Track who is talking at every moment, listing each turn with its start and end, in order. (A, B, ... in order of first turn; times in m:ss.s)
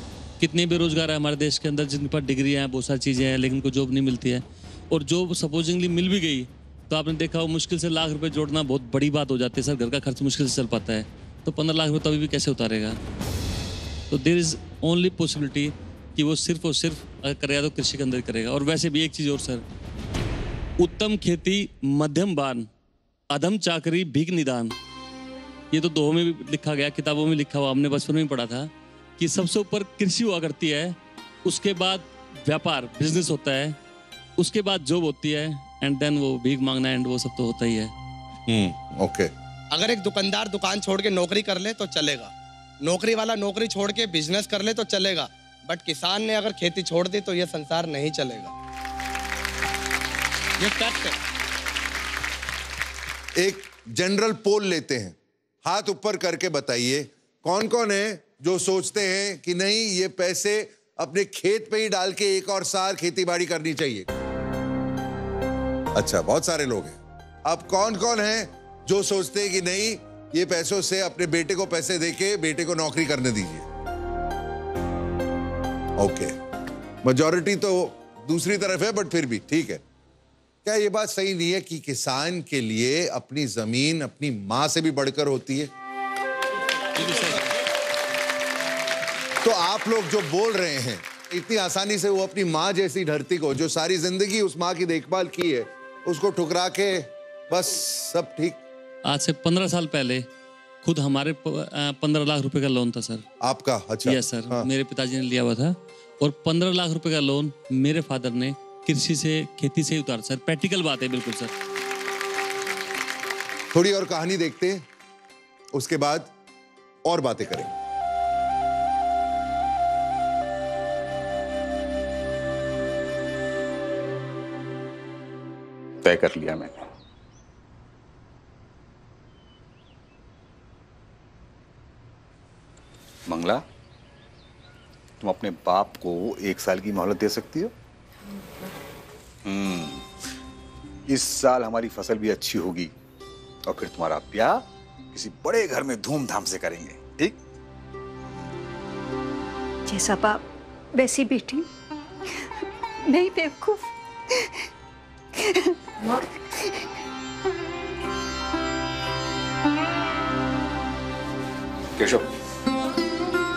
0:00.4-0:13.0 A
0:14.1-0:19.6 A
0:20.8-0:22.7 A
0:23.3-0:24.7 A
0:25.7-0:33.8 A
0:34.4-0:37.9 A
0:38.5-0:39.3 B
0:39.7-0:42.3 C
0:42.8-0:48.5 C
0:50.6-0:51.1 C
0:53.4-1:04.1 B
1:05.9-1:13.7 B
1:16.0-1:16.4 B
1:17.0-1:19.8 B
1:20.6-1:25.7 B
1:29.4-1:38.6 B
1:39.0-1:40.2 A
1:40.8-1:43.2 A
1:43.4-1:44.7 B
1:44.0-1:51.5 A
1:53.7-1:54.8 B
1:55.7-1:56.3 B
1:57.0-1:57.7 B
2:06.0-2:06.8 D
2:13.3-2:13.6 D
2:15.2-2:17.7 D
2:19.4-2:20.1 D
2:21.1-2:22.9 D
2:23.6-2:27.4 D
2:29.9-2:30.4 E
2:30.9-2:31.7 E
2:33.0-2:34.7 E
2:35.3-2:36.8 E
2:42.0-2:42.3 D